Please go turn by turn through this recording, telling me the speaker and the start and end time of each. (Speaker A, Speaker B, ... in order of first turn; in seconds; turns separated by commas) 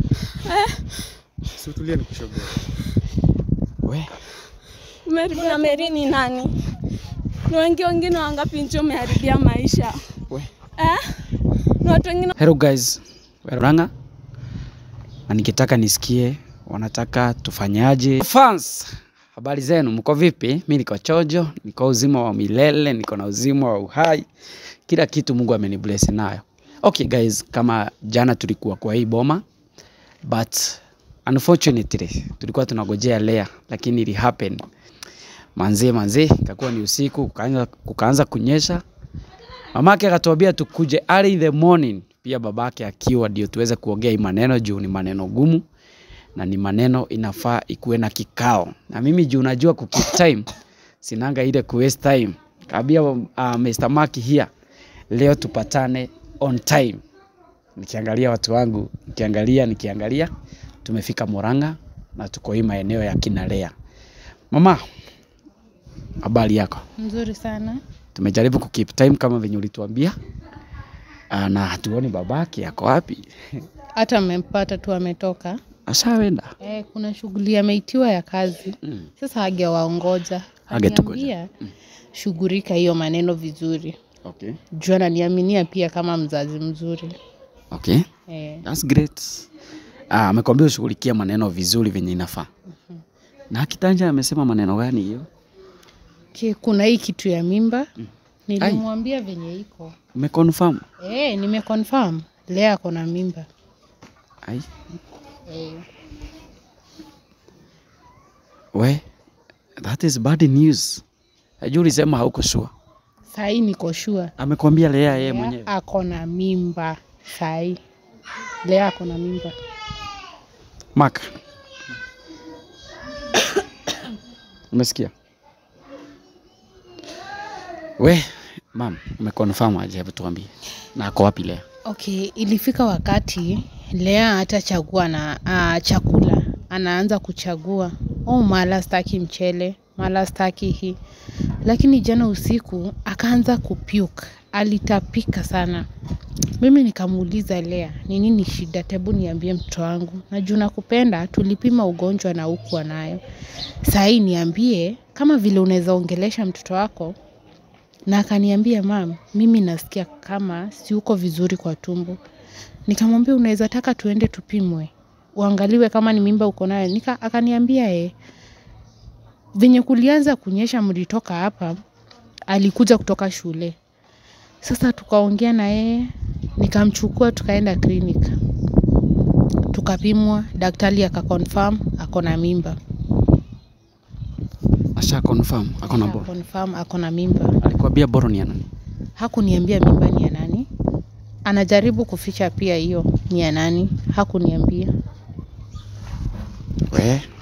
Speaker A: 0.3-1.1, Speaker B: 1.6-2.6, Speaker B: 3.8-4.1, Speaker A: 5.0-6.5, Speaker C: 5.3-5.9, Speaker A: 7.5-10.0, Speaker A: 10.8-11.2, Speaker A: 11.8-12.3, Speaker B: 12.4-13.9, Speaker B: 15.3-24.3, Speaker B: 24.9-29.4, Speaker B: 30.2-34.6, Speaker B: 35.5-38.8, Speaker B: 39.7-45.6, Speaker B: 46.4-50.5, Speaker B: 51.0-54.5, Speaker B: 55.1-57.0, Speaker B: 57.8-60.3, Speaker B: 60.8-63.7, Speaker B: 64.5-64.8, Speaker B: 66.2-66.8, Speaker C: 67.0-67.8, Speaker B: 68.1-70.1, Speaker B: 71.3-73.6, Speaker C: 74.0-75.6, Speaker B: 75.9-76.5, Speaker C: 76.6-81.5, Speaker B: 78.8-79.1, Speaker B: 80.7-81.3, Speaker C: 82.1-84.0, Speaker B: 84.2-84.6, Speaker C: 84.8-87.1, Speaker B: 87.7-88.0, Speaker C: 88.3-88.6, Speaker B: 88.6-89.5, Speaker B: 90.1-92.5, Speaker B: 93.5-95.3, Speaker C: 96.3-97.9, Speaker C: 98.5-99.9, Speaker B: 100.1-100.8, Speaker C: 101.0-103.5, Speaker C: 105.5-105.8, Speaker B: 108.7-109.0, Speaker B: 109.8-111.0, Speaker B: 111.6-112.7, Speaker C: 113.3-114.3, Speaker B: 114.4-115.7, Speaker C: 115.1-117.8, Speaker C: 118.6-119.5, Speaker B: 121.0-121.3, Speaker B: 124.7-125.1, Speaker B: 128.0-131.6, Speaker C: 131.8-141.0, Speaker C: 141.6-145.8, Speaker C: 146.6-153.2, Speaker C: 153.8-157.2, Speaker C: 158.1-162.2, Speaker C: 162.9-168.1, Speaker C: 169.6-171.8, Speaker C: 172.5-173.8, Speaker C: 174.6-178.3, Speaker C: 179.7-182.8, Speaker B: 185.0-186.3, Speaker C: 185.8-187.6, Speaker B: 187.6-188.6, Speaker C: 189.2-190.7, Speaker C: 191.5-194.9, Speaker B: 196.9-197.3